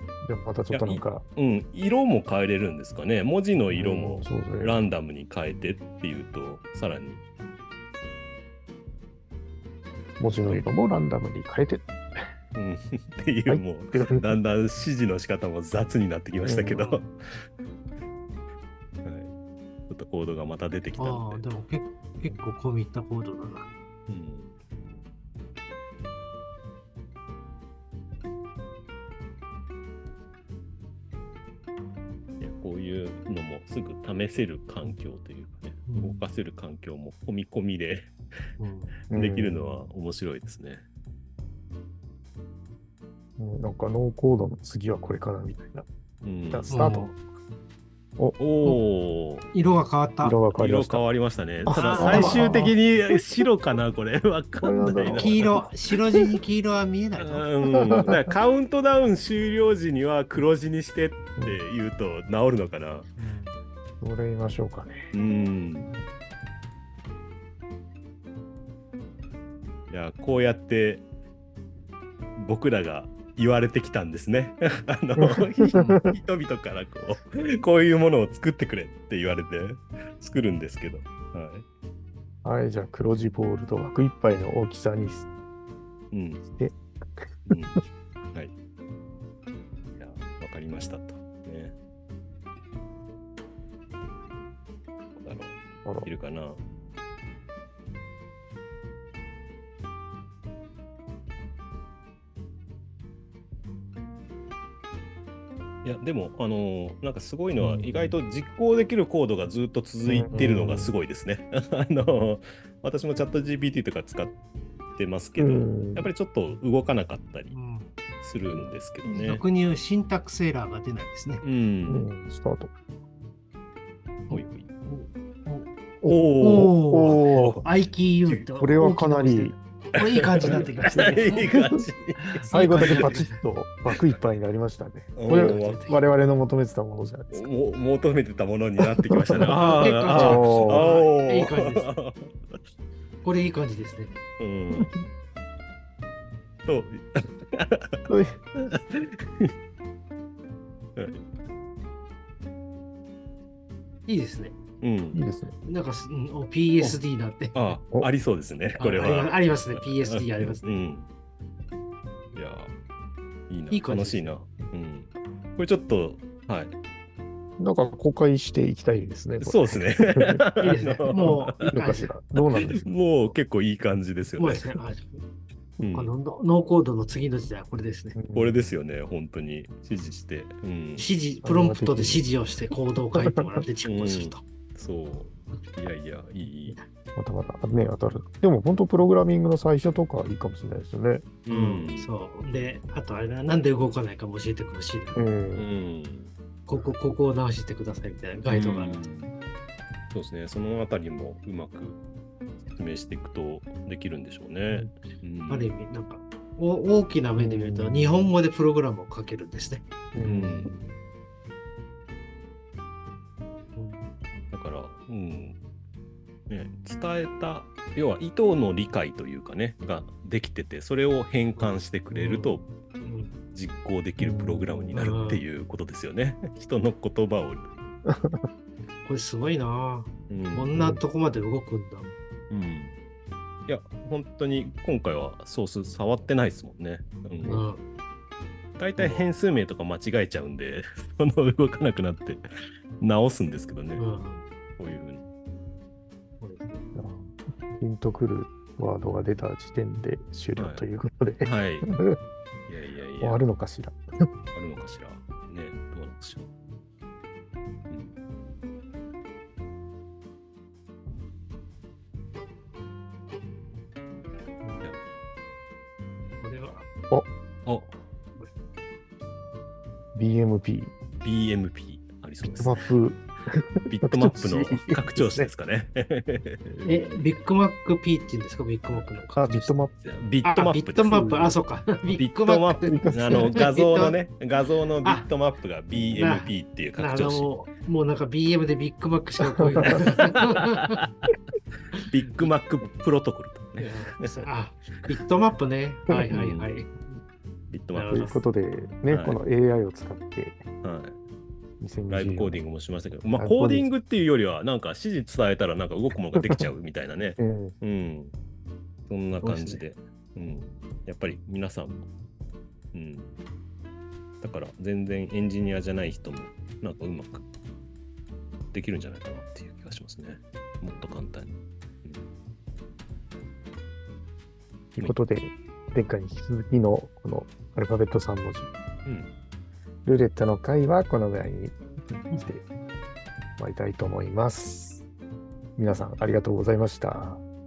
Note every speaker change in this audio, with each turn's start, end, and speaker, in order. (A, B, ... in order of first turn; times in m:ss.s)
0:00.2-0:01.2 A
0:00.7-0:07.2 B
0:03.7-0:04.8 A
0:10.2-0:11.9 A
0:10.3-0:10.7 B
0:12.5-0:17.1 B
0:13.5-0:14.3 A
0:16.4-0:17.0 A
0:19.0-0:19.3 B
0:19.9-0:21.4 B
0:21.0-0:23.7 C
0:24.1-0:24.5 B
0:32.4-0:38.1 B
0:35.9-0:36.2 C
0:38.6-0:38.9 C
0:39.1-0:39.8 A
0:39.1-0:40.8 B
0:43.4-0:45.9 A
0:46.2-0:46.8 B
0:46.5-0:47.2 A
0:46.7-0:47.1 C
0:48.4-0:49.4 B
0:49.5-0:50.4 C
0:50.2-0:51.1 A
0:50.5-0:55.6 B
0:51.6-0:52.6 A
0:51.7-0:52.8 C
0:54.6-0:55.5 A
0:55.2-0:57.5 C
0:57.2-1:03.1 B
1:03.2-1:03.6 C
1:04.0-1:05.1 A
1:05.1-1:05.9 B
1:09.9-1:11.1 B
1:12.4-1:21.6 B
1:15.2-1:16.1 A
1:15.7-1:16.0 C
1:22.4-1:25.3 A
1:26.1-1:26.4 B
1:26.5-1:27.8 A
1:27.5-1:27.8 B
1:29.9-1:31.7 B
1:35.2-1:36.6 B
1:35.8-1:36.1 A
1:45.8-1:54.4 B
1:47.6-1:48.2 A
1:50.0-1:50.9 A
1:50.3-1:50.6 C
1:55.0-1:57.6 B
1:55.4-1:56.1 A
1:57.5-1:57.9 C
1:58.2-1:59.4 B
1:59.0-2:01.4 C
2:01.4-2:02.1 B
2:01.9-2:02.7 A
2:04.3-2:05.7 C
2:04.3-2:04.7 B
2:06.1-2:06.8 B
2:06.4-2:11.5 C
2:06.8-2:07.6 A
2:07.3-2:07.6 B
2:08.6-2:09.6 A
2:10.3-2:13.2 B
2:10.4-2:11.8 A
2:12.2-2:13.4 C
2:12.5-2:17.5 A
2:15.2-2:15.8 B
2:15.2-2:16.0 C
2:17.3-2:22.6 B
2:19.5-2:21.9 C
2:20.1-2:20.9 A
2:23.2-2:24.2 C
2:24.4-2:24.9 B
2:26.7-2:28.0 B
2:28.1-2:28.4 A
2:28.6-2:29.5 B
2:31.0-2:31.2 B
2:34.1-2:34.6 C
2:34.8-2:35.2 B
2:35.1-2:35.6 A
2:35.6-2:37.6 C
2:37.5-2:41.1 B
2:38.8-2:40.6 C
2:42.3-2:42.7 B
2:43.5-2:46.7 B
2:43.7-2:44.3 C
2:47.6-2:50.4 A
2:49.4-2:51.7 B
2:50.6-2:52.1 C
2:51.2-2:52.8 A
2:52.4-2:54.7 B
2:54.4-2:55.2 C
2:55.8-2:56.1 B
2:55.9-2:58.2 C
2:58.2-2:58.7 A
2:58.3-3:01.1 B
3:01.0-3:04.4 C
3:01.4-3:02.2 A
3:03.1-3:03.5 A
3:03.8-3:06.8 B
3:07.2-3:11.3 A
3:11.4-3:12.1 B
3:11.5-3:15.2 C
3:15.2-3:15.7 A
3:15.6-3:16.3 B
3:16.7-3:19.0 C
3:18.5-3:19.3 B
3:20.1-3:22.0 B
3:22.7-3:25.7 B
3:25.5-3:29.8 C
3:27.4-3:28.3 A
3:30.1-3:30.8 A
3:30.2-3:30.8 B
3:33.7-3:34.1 C
3:34.5-3:35.6 B
3:36.5-3:42.7 B
3:41.6-3:43.3 C
3:43.5-3:47.7 B
3:44.2-3:45.1 A
3:44.9-3:45.4 C
3:48.1-3:48.4 A
3:49.0-3:52.1 C
3:50.3-3:50.7 B
3:50.7-3:51.0 A
3:52.5-3:52.9 B
3:53.7-3:57.6 B
3:57.4-3:57.8 C
3:58.8-4:02.4 B
3:59.0-3:59.3 C
4:03.0-4:04.0 B
4:04.0-4:04.4 C
4:04.8-4:05.2 B
4:06.4-4:06.8 C
4:06.9-4:12.2 A
4:10.6-4:10.9 B
4:11.4-4:11.9 B
4:12.7-4:13.4 B
4:13.2-4:14.0 A
4:14.5-4:16.5 B
4:17.9-4:18.2 B
4:26.4-4:26.8 C
4:27.7-4:27.9 B
4:30.2-4:30.9 A
4:31.2-4:32.8 B
4:32.4-4:35.5 A
4:33.9-4:37.3 B
4:36.8-4:39.8 C
4:39.4-4:40.0 A
4:40.0-4:47.5 B
4:40.4-4:44.2 C
4:42.8-4:43.6 A
4:45.0-4:45.3 C
4:46.1-4:51.0 C
4:49.8-4:50.9 B
4:52.1-4:54.4 B
4:53.8-4:56.9 C
4:56.1-4:56.4 A
4:56.3-4:56.7 B
4:57.7-4:58.2 B
4:57.9-4:58.4 C
4:58.1-5:00.6 A
4:59.1-4:59.4 B
5:00.8-5:01.2 B
5:01.8-5:02.6 A
5:02.1-5:08.3 B
5:03.3-5:03.9 A
5:07.4-5:07.7 A
5:09.1-5:12.1 B
5:09.4-5:09.8 C
5:12.9-5:13.4 B
5:14.4-5:17.4 B
5:18.7-5:22.2 B
5:25.0-5:28.7 A
5:29.0-5:29.3 B
5:30.0-5:32.6 A
5:33.6-5:35.1 A
5:35.8-5:37.4 A